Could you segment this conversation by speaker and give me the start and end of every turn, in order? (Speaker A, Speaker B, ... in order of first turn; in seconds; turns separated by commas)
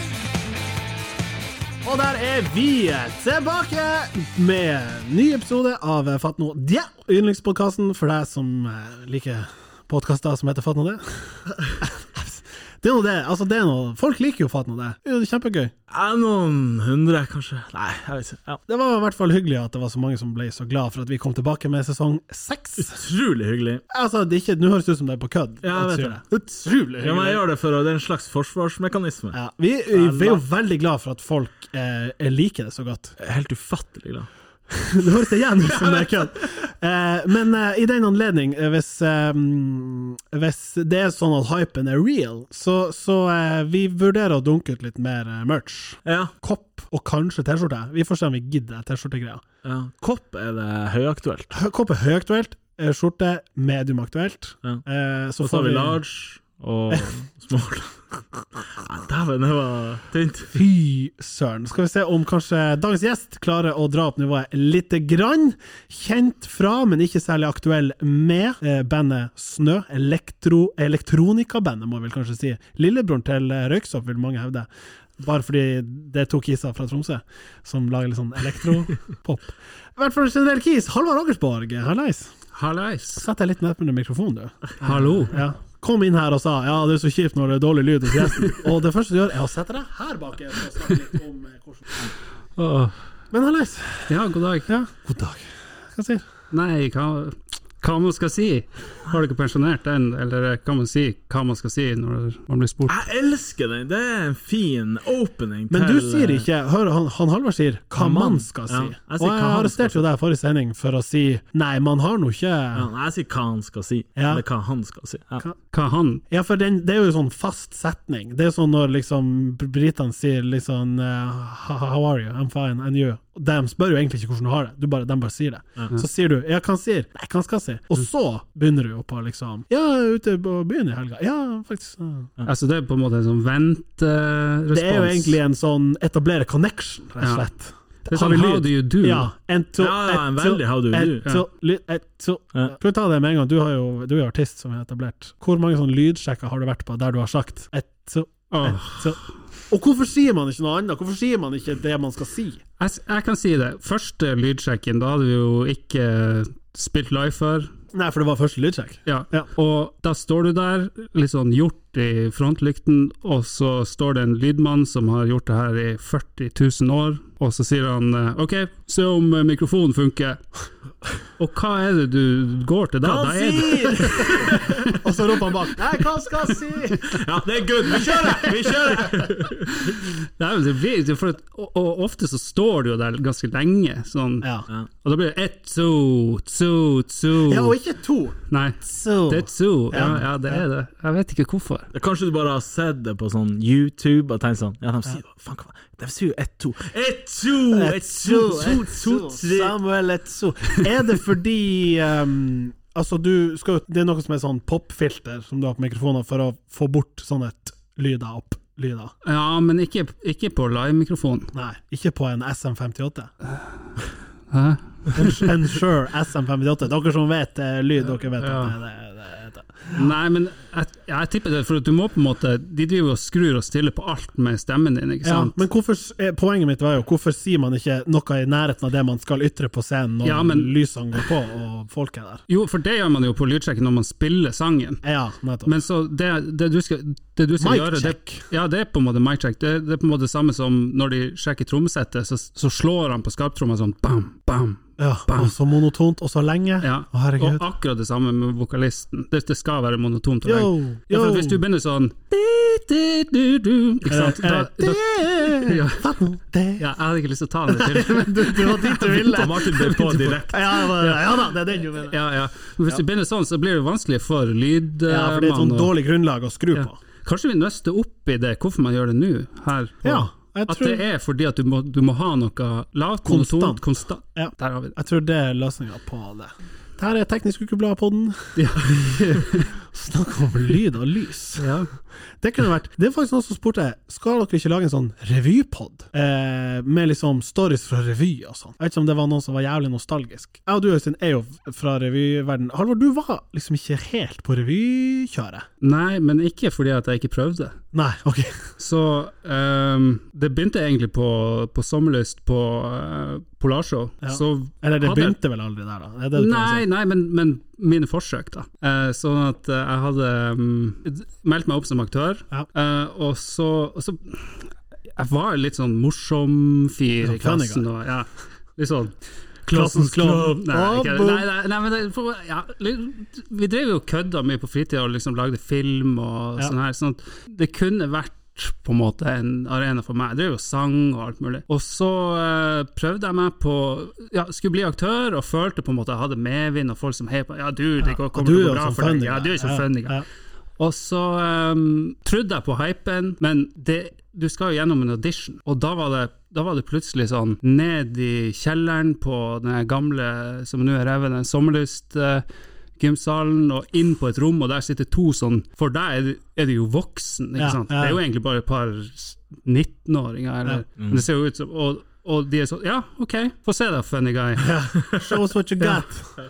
Speaker A: 1.8-15.7, Speaker B: 15.9-18.6, Speaker A: 18.7-23.0, Speaker B: 22.8-23.8, Speaker A: 23.9-27.4, Speaker B: 25.6-26.2, Speaker B: 27.0-29.4, Speaker A: 29.3-33.2, Speaker B: 29.9-30.4, Speaker B: 33.2-34.3, Speaker A: 34.7-49.4, Speaker B: 35.5-36.5, Speaker B: 46.0-46.3, Speaker B: 49.6-51.5, Speaker A: 51.5-56.0, Speaker B: 55.4-58.0, Speaker B: 58.6-60.5, Speaker A: 60.5-74.7, Speaker A: 75.2-82.3, Speaker C: 82.5-83.3, Speaker A: 83.2-92.1, Speaker C: 84.8-85.4, Speaker C: 92.6-92.9, Speaker A: 93.3-94.1, Speaker C: 94.1-94.7, Speaker A: 94.7-96.2, Speaker C: 96.5-103.0, Speaker B: 102.9-106.5, Speaker A: 105.7-112.9, Speaker B: 108.0-110.0, Speaker B: 112.7-115.4, Speaker A: 114.2-114.4, Speaker C: 115.7-116.2, Speaker A: 116.3-132.3, Speaker C: 132.4-135.4, Speaker A: 134.7-152.6, Speaker C: 137.2-137.5, Speaker C: 138.1-139.3, Speaker B: 139.8-141.3, Speaker C: 148.5-149.1, Speaker C: 152.8-157.7, Speaker A: 157.9-159.5, Speaker C: 159.1-170.5, Speaker C: 171.4-175.0, Speaker B: 173.0-175.0, Speaker A: 173.7-177.2, Speaker B: 177.0-180.0, Speaker A: 177.9-179.3, Speaker C: 179.8-184.5, Speaker A: 184.4-184.7, Speaker C: 185.0-187.8, Speaker A: 187.5-190.6, Speaker C: 188.5-191.9, Speaker B: 191.9-199.8, Speaker A: 197.7-209.1, Speaker C: 209.2-211.5, Speaker A: 211.5-213.3, Speaker C: 214.5-215.5, Speaker A: 215.2-220.0, Speaker C: 218.4-218.8, Speaker C: 219.9-225.6, Speaker A: 225.2-232.4, Speaker C: 230.2-230.7, Speaker C: 232.5-235.0, Speaker A: 235.0-235.8, Speaker C: 235.7-245.5, Speaker A: 237.6-238.4, Speaker A: 245.0-247.6, Speaker C: 246.8-256.0, Speaker A: 250.5-251.6, Speaker A: 254.1-256.8, Speaker C: 256.8-259.2, Speaker A: 257.7-262.2, Speaker B: 259.1-260.7, Speaker C: 259.8-261.4, Speaker C: 262.0-265.9, Speaker A: 265.1-267.0, Speaker C: 266.8-275.0, Speaker A: 270.0-271.0, Speaker A: 273.2-281.7, Speaker C: 278.6-279.7, Speaker C: 281.6-281.9, Speaker A: 282.4-295.6, Speaker C: 295.8-297.8, Speaker A: 297.9-298.6, Speaker C: 298.8-305.3, Speaker A: 304.2-306.9, Speaker C: 306.4-319.1, Speaker A: 317.2-317.9, Speaker A: 319.7-321.5, Speaker C: 319.7-340.2, Speaker A: 338.1-340.2, Speaker C: 340.8-352.4, Speaker C: 353.0-364.8, Speaker A: 357.6-358.2, Speaker A: 364.6-366.3